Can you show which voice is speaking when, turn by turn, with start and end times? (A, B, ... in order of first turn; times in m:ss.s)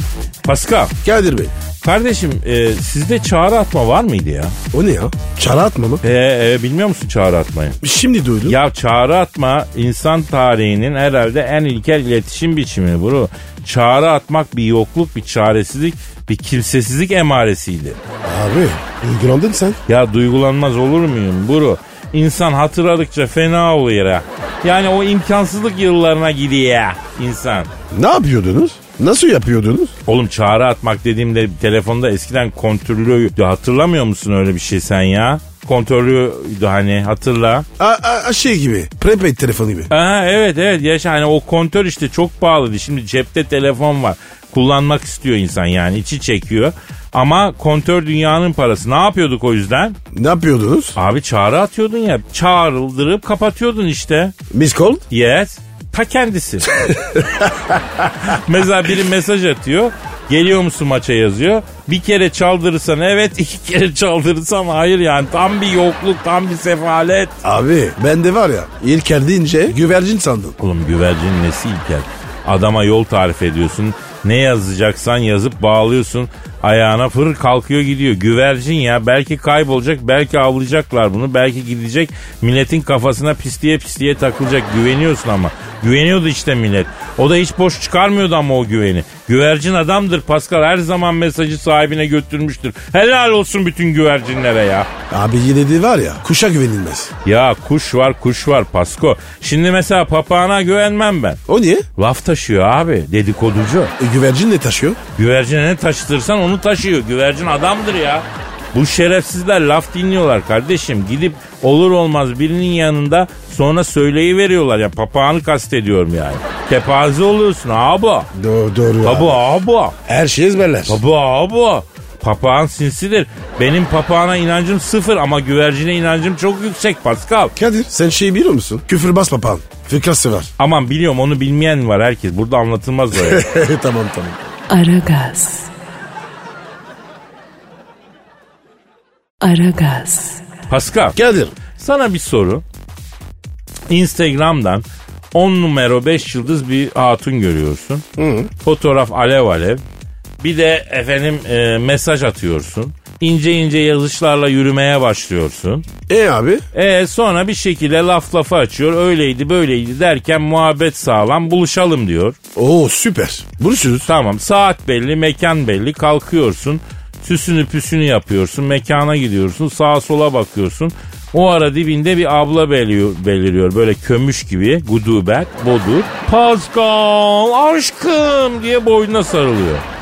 0:00.4-0:00.9 A
0:01.0-0:01.5 B
0:01.8-0:04.6 A
0:04.7-0:06.0 B
0:06.0-0:07.8 A
0:07.8-0:08.6 B
0:08.4-0:18.0 A
0:18.2-0:19.8 B
0:19.9-0:27.7 A
0:27.9-0:29.9 B
0:30.1-0:37.7 A
0:37.8-0:39.9 B
0:39.9-0:50.0 A
0:50.1-0:51.0 B
0:51.0-0:54.3 A
0:54.5-0:55.0 B
0:55.1-0:56.7 A
0:56.8-0:58.1 B
0:58.2-1:07.4 A
1:07.4-1:10.6 B
1:10.6-1:34.9 A
1:35.1-1:37.1 B
1:37.2-1:41.4 A
1:41.5-1:41.9 B
1:42.0-1:43.9 A
1:44.0-1:45.0 B
1:45.2-1:58.3 A
1:58.3-1:59.4 B
1:59.0-2:00.0 A
2:00.1-2:01.0 B
2:00.9-2:07.5 A
2:07.6-2:10.5 B
2:10.6-2:13.4 A
2:13.1-2:14.5 B
2:14.7-2:15.7 C
2:19.4-2:20.5 C
2:20.7-2:21.2 A
2:21.2-2:21.6 B
2:21.7-2:22.6 A
2:23.9-2:28.0 A
2:28.2-2:28.5 B
2:28.6-2:29.8 A
2:30.4-2:35.9 A
2:36.1-2:36.6 B
2:36.7-2:42.4 A
2:42.6-2:44.1 B
2:44.1-2:59.8 A